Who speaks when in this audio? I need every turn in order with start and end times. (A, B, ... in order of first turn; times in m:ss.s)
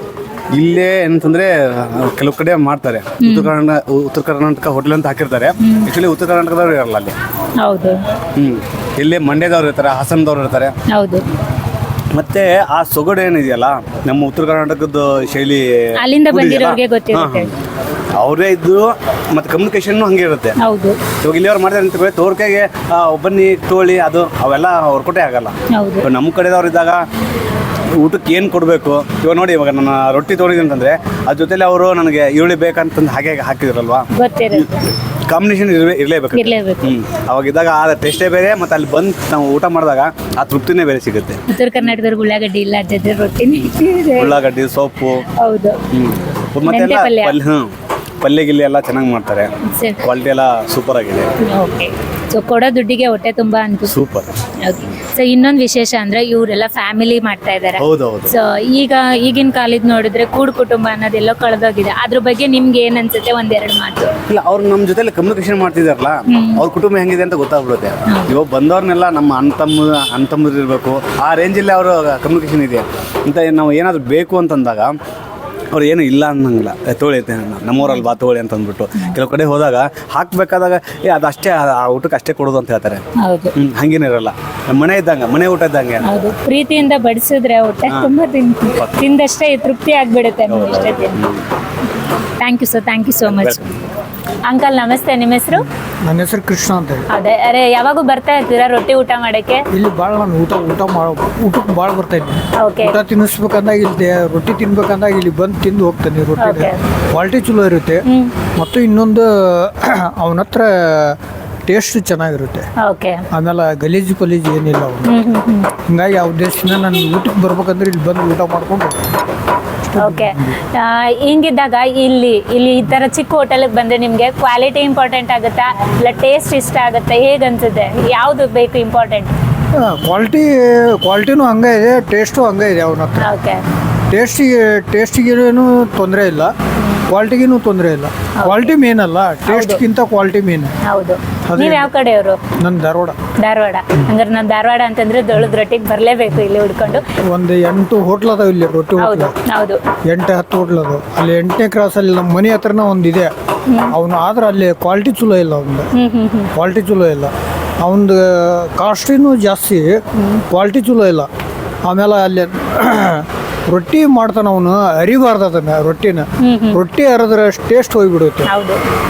0:00.5-0:07.1 A
0:03.2-0:03.5 B
0:05.6-0:05.9 B
0:07.6-0:08.0 B
0:08.4-0:10.8 A
0:10.9-0:11.3 B
0:12.1-0:15.7 A
0:16.0-0:17.5 B
0:16.3-0:17.5 A
0:18.2-0:20.6 A
0:20.6-0:21.0 B
0:21.2-0:27.0 A
0:25.7-0:26.1 B
0:28.0-0:34.7 A
0:34.2-0:34.7 B
0:35.3-0:41.4 A
0:36.3-0:36.8 B
0:41.5-0:44.4 B
0:44.2-0:45.2 A
0:45.4-0:45.8 B
0:45.9-0:47.7 A
0:46.7-0:47.4 B
0:48.2-0:49.5 A
0:49.7-0:50.0 B
0:50.0-0:51.3 A
0:51.5-0:54.0 B
0:53.9-0:54.3 A
0:54.6-1:04.1 B
0:57.8-0:58.3 A
1:04.3-1:14.9 A
1:06.3-1:06.6 B
1:08.1-1:08.4 B
1:15.7-1:23.0 A
1:23.2-1:23.5 B
1:23.6-1:26.0 A
1:26.0-1:31.2 B
1:30.5-1:31.4 A
1:32.4-1:33.7 B
1:33.2-1:33.6 A
1:34.5-1:35.7 B
1:35.6-1:37.0 C
1:37.1-1:39.6 B
1:39.7-1:48.0 C
1:42.6-1:43.0 B
1:46.4-1:46.8 B
1:48.0-1:48.3 B
1:48.6-1:51.2 C
1:51.7-1:52.7 C
1:52.8-1:53.2 B
1:53.3-1:55.1 C
1:55.0-1:55.7 B
1:55.9-1:59.0 C
2:00.0-2:00.5 C
2:00.0-2:09.3 B
2:09.8-2:13.3 C
2:13.2-2:13.6 B
2:14.1-2:16.5 C
2:17.1-2:20.7 C
2:18.4-2:18.7 B
2:19.5-2:19.8 B
2:20.8-2:22.4 B
2:21.5-2:21.9 C
2:22.6-2:23.2 C
2:23.4-2:27.0 B
2:27.3-2:29.3 C
2:29.0-2:29.8 B
2:30.1-2:33.3 C
2:33.7-2:33.9 B
2:33.9-2:35.9 C
2:35.9-2:36.5 B
2:36.6-2:41.3 C
2:40.2-2:40.4 B
2:41.9-2:48.5 C
2:46.4-2:46.8 B
2:48.5-2:48.8 B